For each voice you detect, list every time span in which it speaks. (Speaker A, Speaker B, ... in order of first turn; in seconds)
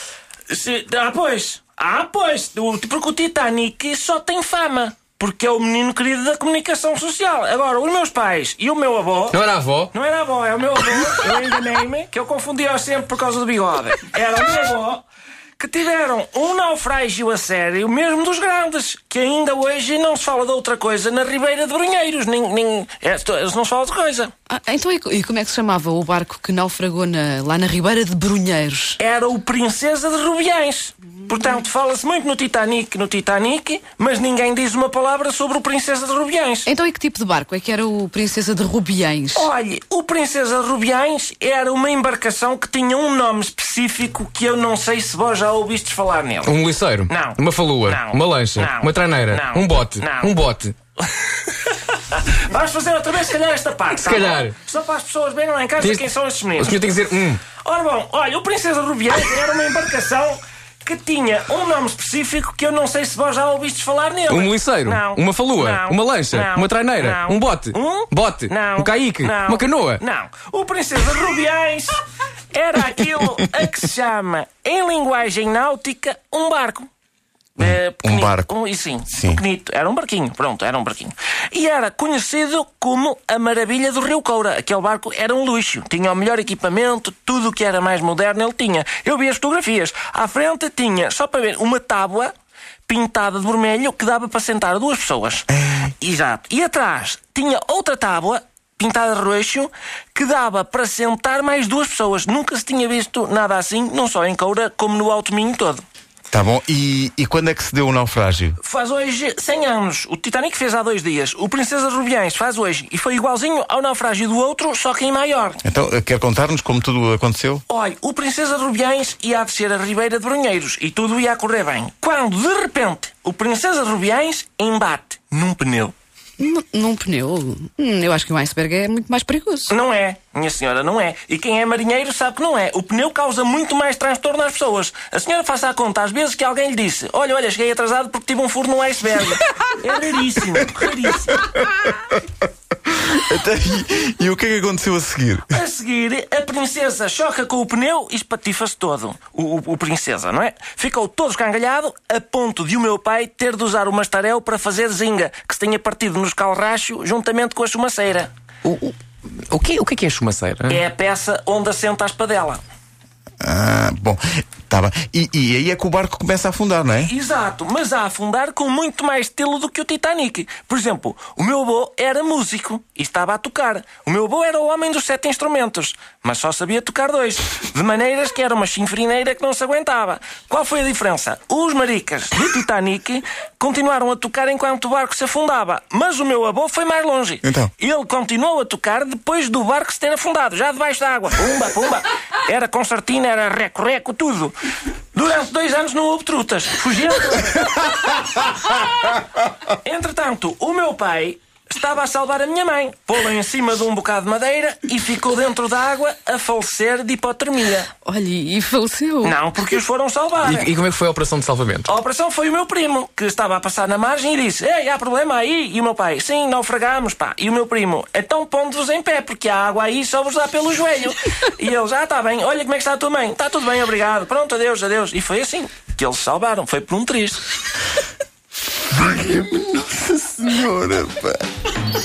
Speaker A: 0.5-9.4, 9.9-15.1, 15.6-24.3, 29.0-36.7, 39.3-46.6, 47.1-50.4, 51.0-56.8, 57.6-76.9, 77.6-92.3, 92.9-95.5, 96.0-105.8, 108.6-115.6, 117.7-125.9, 129.7-141.5, 145.5-158.3, 160.7-162.6, 166.9-194.6, 195.1-207.9, 209.2-210.7, 211.9-227.4
Speaker B: 9.3-9.9, 46.5-50.7, 53.9-54.6, 55.8-56.1, 56.6-57.4, 64.3-70.0, 158.7-159.0, 159.5-160.8, 210.4-211.9
Speaker C: 24.5-29.0, 36.7-39.5, 126.4-129.7, 208.0-209.4
Speaker D: 77.6-78.5, 79.1-79.4, 95.6-95.8, 106.3-108.6, 115.6-117.6, 142.9-145.5, 163.4-167.1, 187.4-187.7, 228.9-231.4